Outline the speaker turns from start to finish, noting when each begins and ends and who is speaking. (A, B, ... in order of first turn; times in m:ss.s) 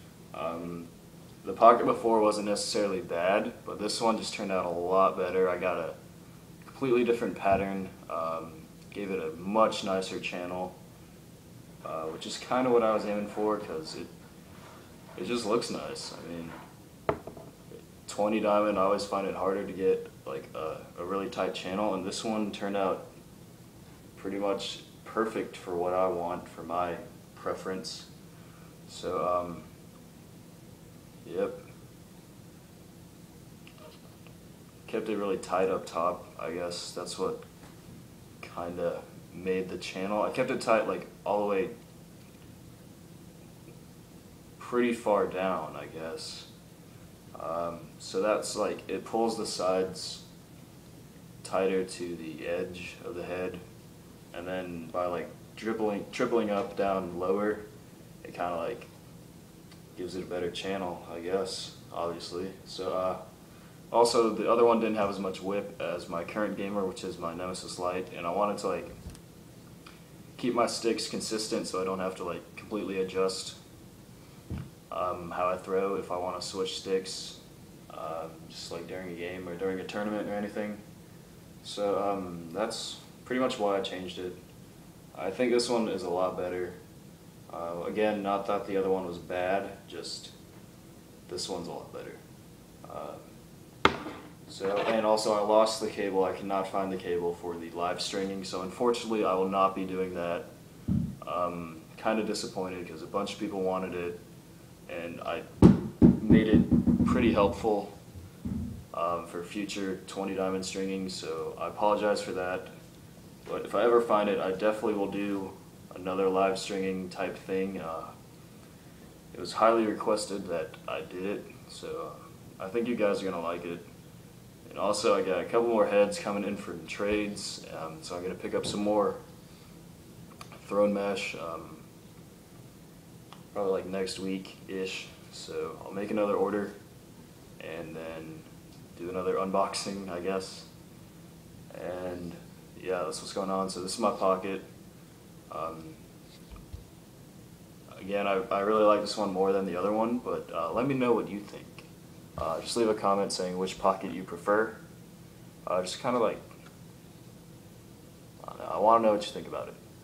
0:00.3-0:00.9 A
0:01.4-0:06.0 A
0:06.6-0:10.8 A
0:11.8-0:14.1 A
0:15.2-0:16.6 A
0:18.0-0:23.0 A
0:24.2-0:28.1 A
0:28.9-0:29.6 A
0:31.2-0:31.6 A
0:34.8-0:37.4 A
0:38.4-0:41.7 A
0:44.6-0:46.5 A
0:47.3-0:50.2 A
0:51.4-0:53.6 A
0:54.3-0:57.6 A
0:58.2-0:58.9 A
0:59.9-1:03.2 A
1:03.9-1:08.9 A
1:10.4-1:13.6 A
1:14.9-1:17.4 A
1:17.9-1:20.8 A
1:21.6-1:24.4 A
1:25.1-1:26.8 A
1:27.5-1:30.3 A
1:31.3-1:32.2 A
1:32.8-1:33.2 A
1:34.4-1:40.5 A
1:41.2-1:44.2 A
1:44.9-1:45.5 A
1:46.2-1:47.9 A
1:48.9-1:52.7 A
1:53.4-1:58.1 A
1:59.3-2:03.8 A
2:04.6-2:09.2 A
2:10.6-2:11.8 A
2:13.5-2:16.8 A
2:17.6-2:20.7 A
2:21.7-2:24.6 A
2:25.5-2:26.0 A
2:27.9-2:34.8 A
2:35.6-2:36.4 A
2:38.4-2:39.8 A